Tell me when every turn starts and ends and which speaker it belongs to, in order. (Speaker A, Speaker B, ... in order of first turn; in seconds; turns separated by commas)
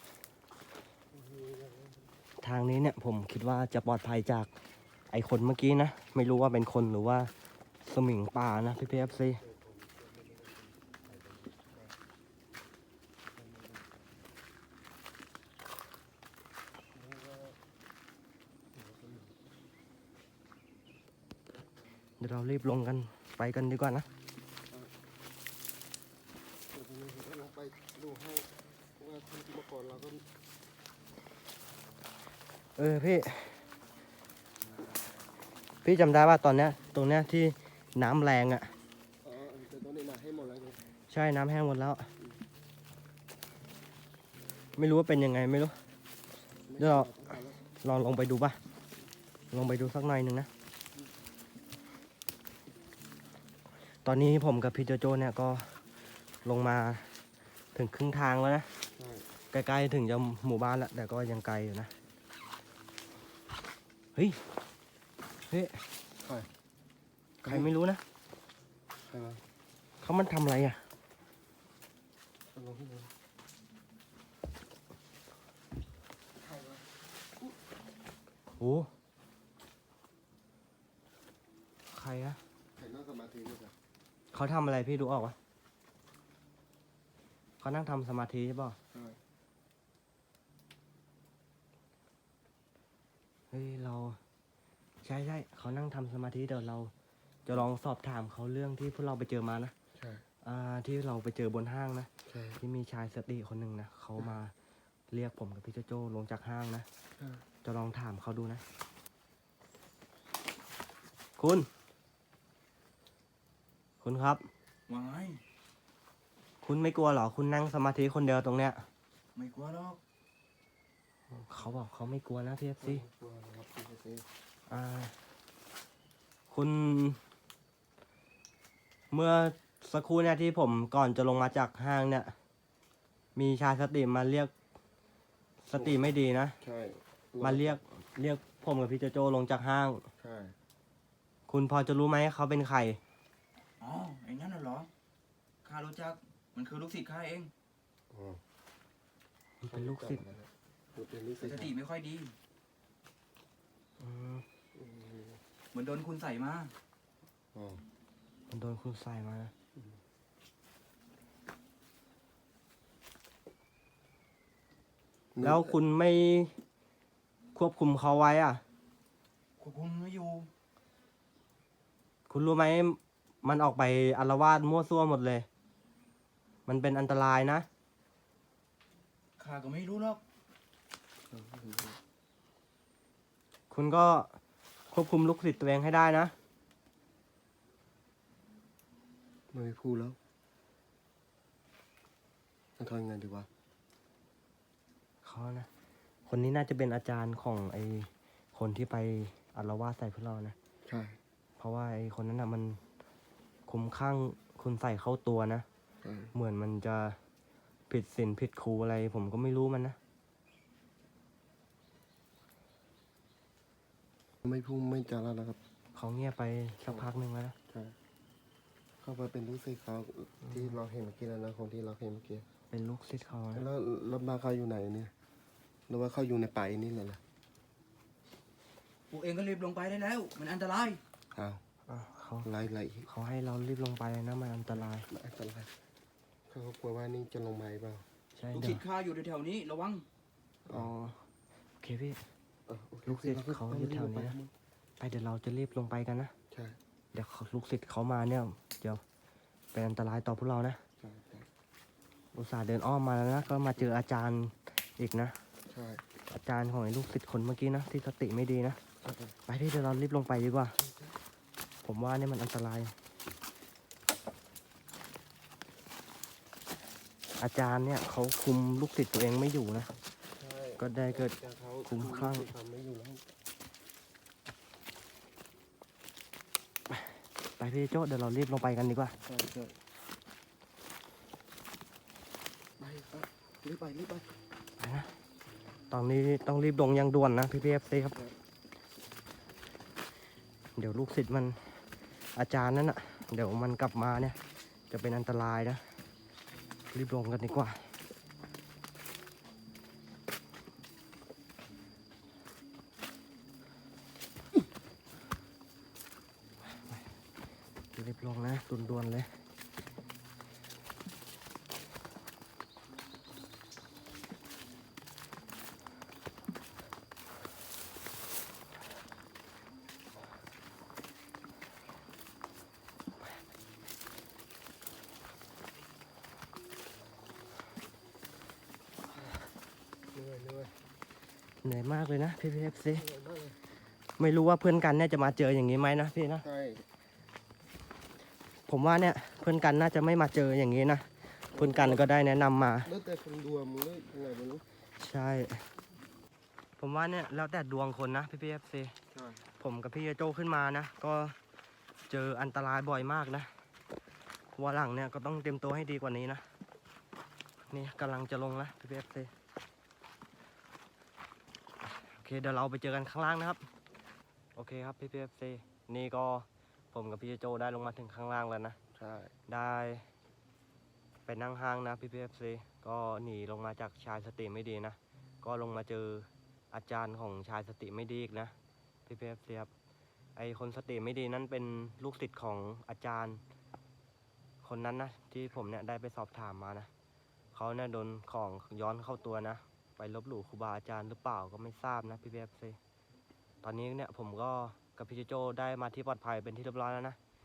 Speaker A: 1.1-2.1, Speaker B: 2.4-4.5, Speaker B: 5.1-7.3, Speaker B: 7.8-9.4, Speaker A: 8.8-12.0, Speaker A: 13.3-14.2, Speaker A: 16.9-17.6, Speaker A: 18.7-19.4, Speaker B: 22.2-24.1, Speaker A: 26.7-30.2, Speaker B: 32.8-33.6, Speaker B: 35.8-38.7, Speaker A: 39.2-40.8, Speaker B: 41.1-42.1, Speaker B: 44.8-45.7, Speaker A: 46.7-47.6, Speaker B: 46.8-48.6, Speaker B: 49.5-50.5, Speaker B: 54.0-55.8, Speaker B: 56.4-57.1, Speaker B: 57.7-58.7, Speaker A: 59.0-59.3, Speaker B: 59.5-61.9, Speaker B: 64.1-64.4, Speaker B: 65.5-65.8, Speaker A: 66.2-66.5, Speaker B: 67.4-68.0, Speaker A: 67.4-67.7, Speaker A: 69.0-69.4, Speaker B: 70.0-70.8, Speaker A: 72.5-73.1, Speaker A: 76.4-76.9, Speaker B: 78.6-78.9, Speaker B: 81.9-82.4, Speaker A: 82.8-83.7, Speaker B: 84.3-85.3, Speaker B: 87.6-88.8, Speaker A: 88.9-89.2, Speaker B: 93.5-94.2, Speaker B: 95.0-96.9, Speaker B: 97.5-99.7, Speaker A: 100.0-100.2, Speaker B: 100.4-102.1, Speaker A: 102.2-102.6, Speaker B: 102.6-104.5, Speaker B: 105.1-106.9, Speaker A: 107.2-107.4, Speaker B: 107.6-108.6, Speaker B: 111.4-111.7, Speaker B: 114.0-114.4, Speaker C: 114.9-115.4, Speaker B: 116.6-118.8, Speaker C: 119.3-120.0, Speaker B: 121.4-123.0, Speaker A: 122.8-124.2, Speaker B: 124.7-125.1, Speaker B: 126.5-127.2, Speaker B: 129.1-132.3, Speaker B: 133.3-134.5, Speaker B: 135.6-136.6, Speaker A: 135.7-137.8, Speaker B: 137.4-140.0, Speaker A: 140.2-140.5, Speaker B: 141.5-143.0, Speaker C: 143.8-144.9, Speaker C: 145.6-147.5, Speaker A: 148.1-148.4, Speaker B: 149.6-150.2, Speaker A: 149.7-151.7, Speaker C: 151.4-152.3, Speaker B: 154.0-154.4, Speaker A: 154.7-155.4, Speaker C: 155.7-156.7, Speaker A: 157.5-157.8, Speaker B: 158.5-159.5, Speaker A: 165.3-165.8, Speaker B: 165.4-166.5, Speaker B: 167.5-168.6, Speaker C: 169.6-170.5, Speaker B: 172.3-175.5, Speaker B: 176.7-177.7, Speaker C: 179.4-180.2, Speaker A: 181.3-182.0, Speaker B: 183.7-184.3, Speaker B: 184.9-186.3, Speaker A: 189.5-190.2, Speaker A: 192.8-193.5, Speaker B: 195.2-195.7, Speaker B: 196.3-200.6, Speaker A: 200.8-201.2, Speaker B: 201.6-202.8, Speaker B: 203.7-205.6, Speaker A: 206.0-206.3, Speaker B: 206.3-207.2, Speaker B: 207.9-210.0, Speaker A: 214.4-215.6, Speaker B: 215.9-217.6, Speaker A: 217.7-217.9, Speaker A: 219.0-222.4, Speaker B: 222.7-223.6, Speaker A: 223.5-225.1, Speaker A: 225.9-227.2, Speaker C: 229.1-231.0, Speaker A: 231.3-231.6, Speaker B: 231.9-232.5, Speaker A: 232.4-233.1, Speaker B: 233.1-235.1, Speaker A: 234.8-235.7, Speaker A: 236.5-238.0, Speaker B: 238.3-238.8, Speaker C: 238.5-240.0, Speaker A: 240.7-240.9, Speaker B: 240.7-241.2, Speaker B: 241.8-242.2, Speaker A: 242.7-244.5, Speaker B: 243.1-244.4, Speaker B: 245.0-246.3, Speaker A: 246.5-246.8, Speaker B: 247.1-249.0, Speaker B: 249.7-250.8, Speaker A: 251.0-251.5, Speaker B: 252.3-255.4, Speaker A: 255.7-256.0, Speaker B: 256.3-258.8, Speaker A: 259.1-259.3, Speaker B: 259.4-260.8, Speaker A: 260.8-261.1, Speaker B: 261.8-262.9, Speaker B: 267.4-269.9, Speaker A: 270.4-273.2, Speaker B: 270.8-271.3, Speaker B: 271.9-272.5, Speaker B: 277.6-279.1, Speaker A: 279.2-279.7, Speaker A: 282.8-284.3, Speaker B: 284.8-285.1, Speaker B: 285.9-288.2, Speaker B: 290.8-291.8, Speaker B: 292.3-294.4, Speaker B: 294.9-295.8, Speaker B: 296.9-297.9, Speaker B: 306.7-307.1, Speaker B: 307.9-309.3, Speaker A: 330.1-330.8, Speaker B: 331.6-333.1, Speaker A: 332.9-333.6, Speaker B: 334.2-336.4, Speaker A: 336.4-336.9, Speaker B: 338.7-342.9, Speaker A: 341.5-342.1, Speaker A: 342.8-344.6, Speaker B: 345.0-345.6, Speaker B: 346.8-348.9, Speaker A: 349.1-349.4, Speaker B: 349.6-351.4, Speaker B: 352.1-353.5, Speaker B: 354.5-356.4, Speaker B: 357.7-359.3, Speaker B: 361.8-363.6, Speaker B: 364.5-368.8, Speaker A: 368.9-369.3, Speaker B: 369.5-370.1, Speaker B: 371.2-378.5, Speaker B: 379.1-379.7, Speaker B: 380.4-383.4, Speaker B: 384.6-386.9, Speaker B: 387.5-392.8, Speaker B: 393.6-397.2